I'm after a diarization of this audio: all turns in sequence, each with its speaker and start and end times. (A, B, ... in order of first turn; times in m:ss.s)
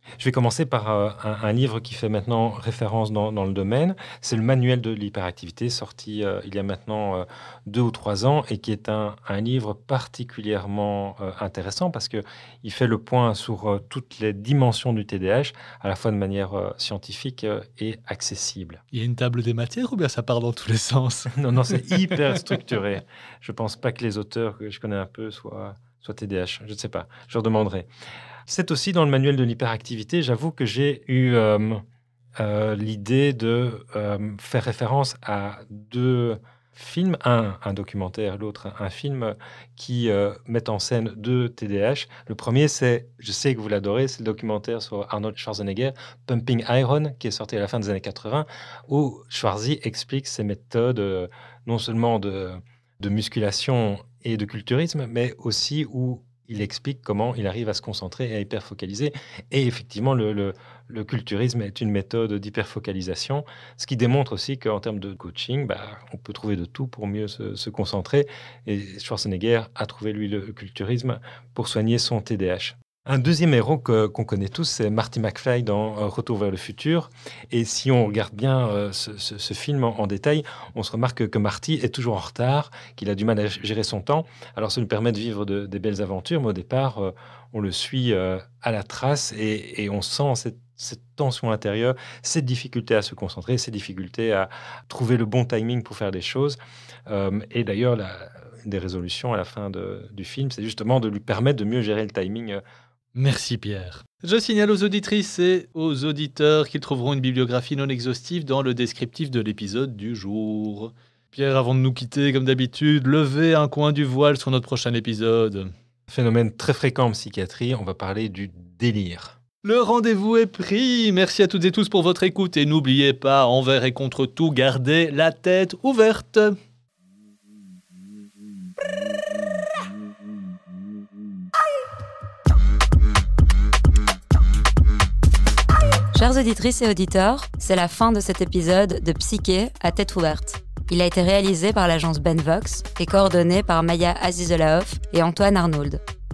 0:00.2-0:18.8 A
0:18.9-0:22.1 B
0:21.3-0:27.9 A
0:28.5-0:31.8 A
0:32.4-1:42.6 A
1:43.2-1:55.7 B
1:56.1-1:59.4 A
1:59.6-2:06.6 B
2:16.1-2:26.0 C